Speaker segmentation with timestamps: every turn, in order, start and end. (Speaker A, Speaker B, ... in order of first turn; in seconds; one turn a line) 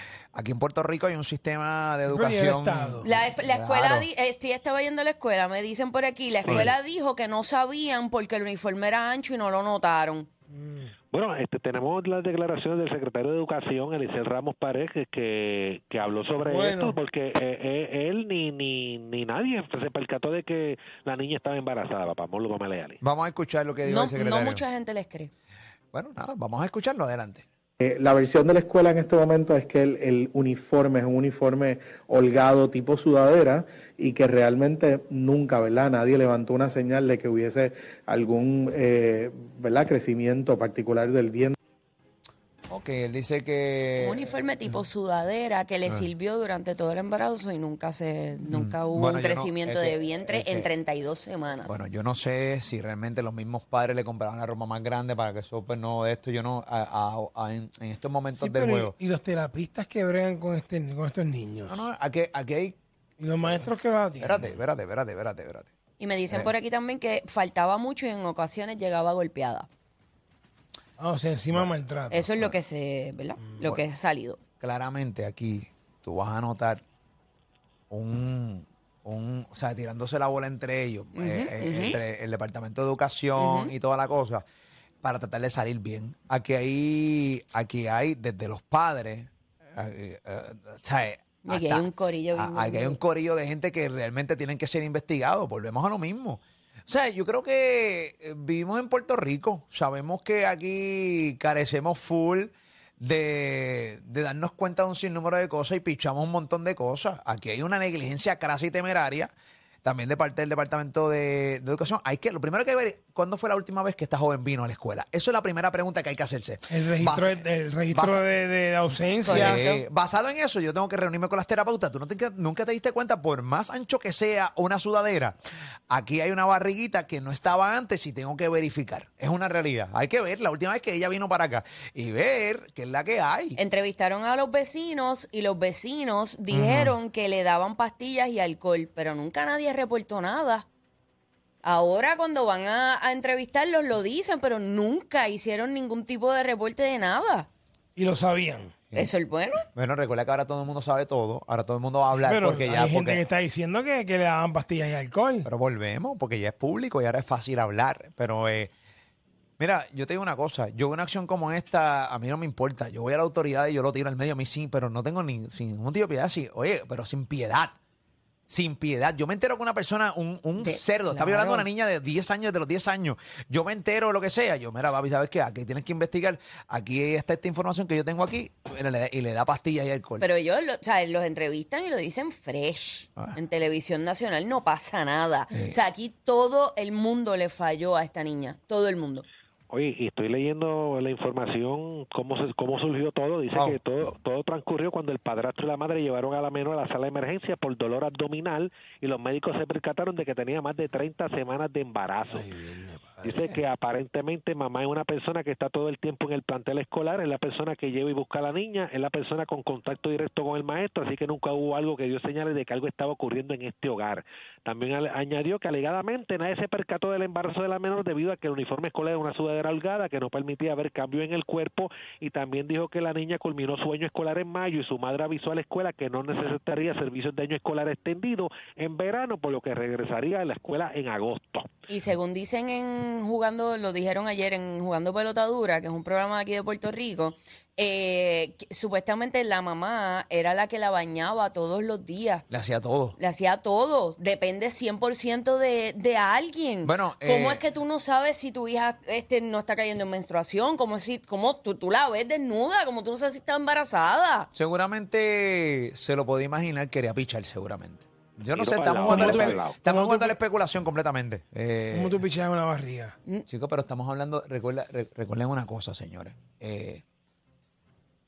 Speaker A: 0.3-4.1
Speaker B: 2.1-3.1
Speaker C: 3.0-10.3
Speaker B: 10.5-10.9
Speaker D: 11.1-23.0
Speaker B: 16.4-17.0
Speaker A: 23.0-24.6
Speaker C: 23.8-25.3
Speaker A: 25.9-27.4
Speaker E: 27.8-41.5
Speaker A: 42.7-44.3
Speaker C: 44.0-51.8
Speaker A: 48.5-50.7
Speaker A: 51.6-58.9
Speaker B: 58.3-61.8
Speaker A: 61.6-62.8
Speaker B: 63.2-64.5
Speaker A: 64.2-65.7
Speaker C: 66.0-69.7
Speaker B: 71.0-72.2
Speaker A: 71.5-72.5
Speaker C: 72.1-74.4
Speaker A: 74.6-76.8
Speaker A: 77.9-84.4
Speaker C: 81.1-82.0
Speaker C: 83.3-83.7
Speaker A: 85.0-109.3
Speaker C: 91.4-93.0
Speaker A: 109.8-118.3
Speaker B: 116.7-119.7
Speaker C: 119.2-119.8
Speaker A: 119.2-125.4
Speaker A: 125.9-133.6
Speaker C: 133.6-140.7
Speaker A: 136.5-136.9
Speaker C: 141.6-147.5
Speaker B: 147.9-148.7
Speaker C: 148.9-149.6
Speaker A: 149.7-153.2
Speaker B: 152.1-155.5
Speaker A: 155.4-158.7
Speaker A: 159.6-167.7
Speaker A: 168.5-180.3
Speaker C: 170.6-171.7
Speaker C: 180.2-189.2
Speaker A: 185.5-185.8
Speaker D: 189.7-202.5
Speaker A: 193.5-193.8
Speaker B: 202.3-203.4
Speaker D: 203.2-231.7
Speaker C: 231.9-242.4
Speaker A: 242.5-243.2
Speaker C: 243.2-254.5
Speaker A: 246.8-247.6
Speaker A: 254.5-262.2
Speaker D: 258.5-259.8
Speaker B: 259.1-260.3
Speaker B: 261.9-263.1
Speaker A: 263.5-267.0